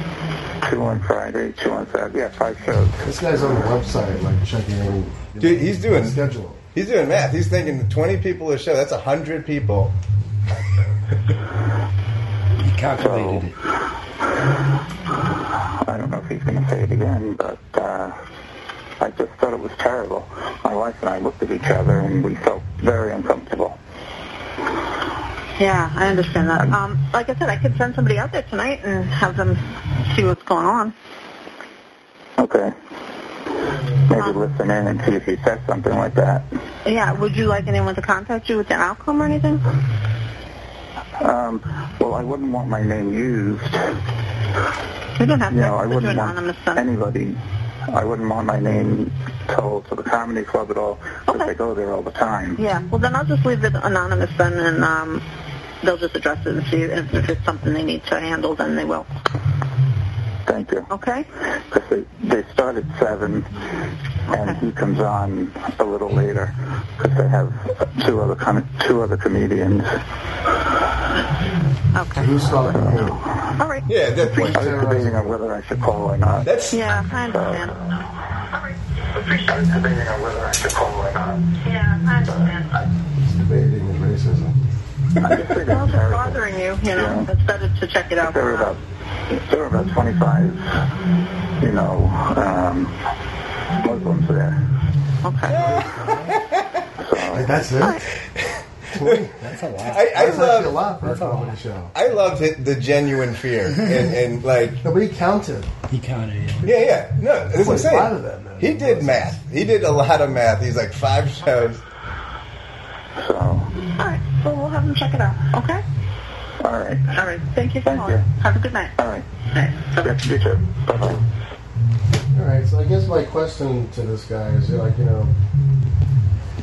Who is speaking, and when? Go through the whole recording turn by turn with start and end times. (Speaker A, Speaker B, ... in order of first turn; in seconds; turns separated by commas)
Speaker A: 0.6-3.0, Speaker B: 3.0-6.6, Speaker C: 5.4-6.2, Speaker C: 6.7-9.9, Speaker D: 12.6-13.6, Speaker A: 13.0-13.5, Speaker A: 15.8-18.1, Speaker A: 19.0-23.8, Speaker E: 25.6-30.9, Speaker A: 32.4-32.7, Speaker A: 34.1-36.5, Speaker E: 36.8-39.6, Speaker A: 41.2-44.0, Speaker E: 45.2-46.8, Speaker A: 45.5-47.4, Speaker A: 47.9-52.6, Speaker E: 52.6-55.2, Speaker E: 55.8-59.1, Speaker A: 60.5-60.9, Speaker E: 60.9-61.3, Speaker A: 61.5-63.5, Speaker A: 64.3-69.9, Speaker E: 71.9-72.7, Speaker B: 72.2-73.2, Speaker E: 73.6-73.9, Speaker C: 73.9-74.9, Speaker B: 74.2-75.3, Speaker A: 74.5-77.7, Speaker C: 76.4-76.8, Speaker E: 76.7-77.9, Speaker A: 79.2-81.6, Speaker E: 81.6-82.7, Speaker A: 82.2-82.5, Speaker B: 83.2-84.5, Speaker A: 85.2-87.3, Speaker E: 85.5-88.7, Speaker A: 88.2-90.6, Speaker A: 91.6-93.0, Speaker A: 93.8-94.6, Speaker E: 95.2-95.8, Speaker C: 95.5-96.8, Speaker A: 97.0-97.7, Speaker B: 97.3-98.0, Speaker B: 98.9-99.4, Speaker D: 99.4-100.1, Speaker C: 99.8-100.8, Speaker B: 99.9-101.9, Speaker D: 101.0-101.5, Speaker C: 101.9-104.8, Speaker B: 104.8-105.7, Speaker D: 105.9-106.8, Speaker C: 106.6-111.8, Speaker B: 107.5-109.4, Speaker A: 113.2-113.7, Speaker E: 114.0-115.8, Speaker A: 116.6-117.2, Speaker E: 117.1-118.9, Speaker A: 117.8-118.2, Speaker A: 119.0-119.2, Speaker E: 119.5-120.3, Speaker A: 120.0-121.2, Speaker B: 122.3-125.3